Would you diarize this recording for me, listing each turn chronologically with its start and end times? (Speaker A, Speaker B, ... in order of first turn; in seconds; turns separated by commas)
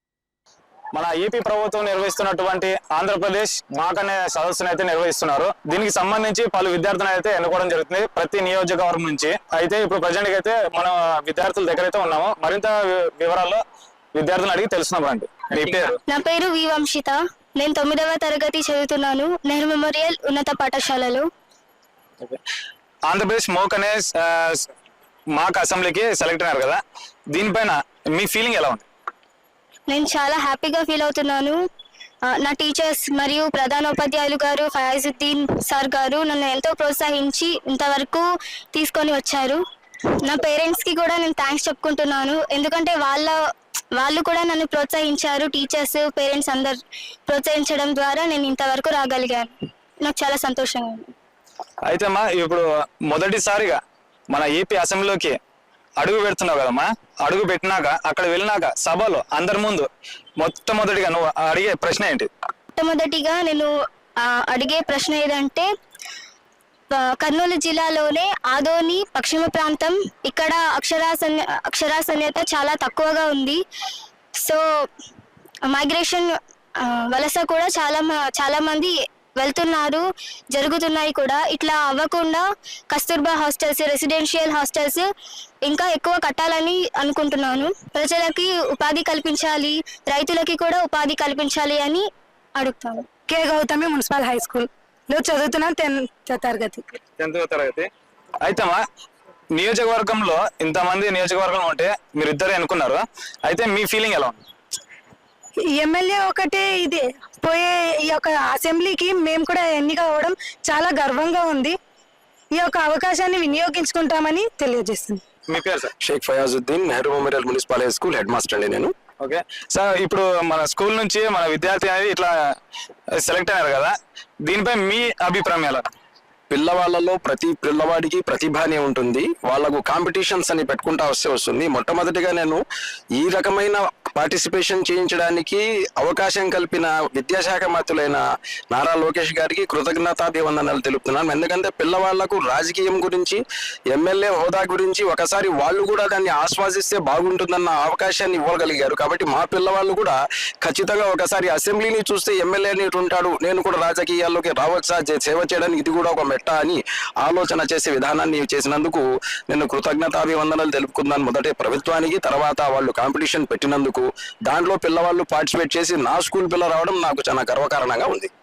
Speaker A: 0.9-13.6, Speaker A: 14.2-16.0, Speaker B: 16.1-21.3, Speaker A: 23.1-24.7, Speaker A: 25.4-26.8, Speaker A: 27.3-28.8, Speaker B: 29.9-31.6, Speaker B: 32.3-39.6, Speaker B: 40.2-43.4, Speaker B: 43.9-49.5, Speaker B: 50.0-51.1, Speaker A: 51.9-53.8, Speaker A: 54.3-55.4, Speaker A: 56.0-59.9, Speaker A: 60.4-62.3, Speaker B: 62.7-63.7, Speaker B: 64.2-65.7, Speaker B: 66.9-73.6, Speaker B: 75.7-85.1, Speaker B: 85.6-92.0, Speaker B: 92.6-93.0, Speaker C: 93.3-96.8, Speaker A: 97.2-97.9, Speaker A: 98.4-98.8, Speaker A: 99.5-104.4, Speaker C: 105.7-111.8, Speaker C: 112.5-115.2, Speaker A: 115.5-115.9, Speaker D: 116.0-118.9, Speaker A: 119.2-122.3, Speaker A: 123.2-123.9, Speaker A: 124.4-125.9, Speaker D: 126.5-132.6, Speaker D: 133.2-143.4, Speaker D: 143.9-168.3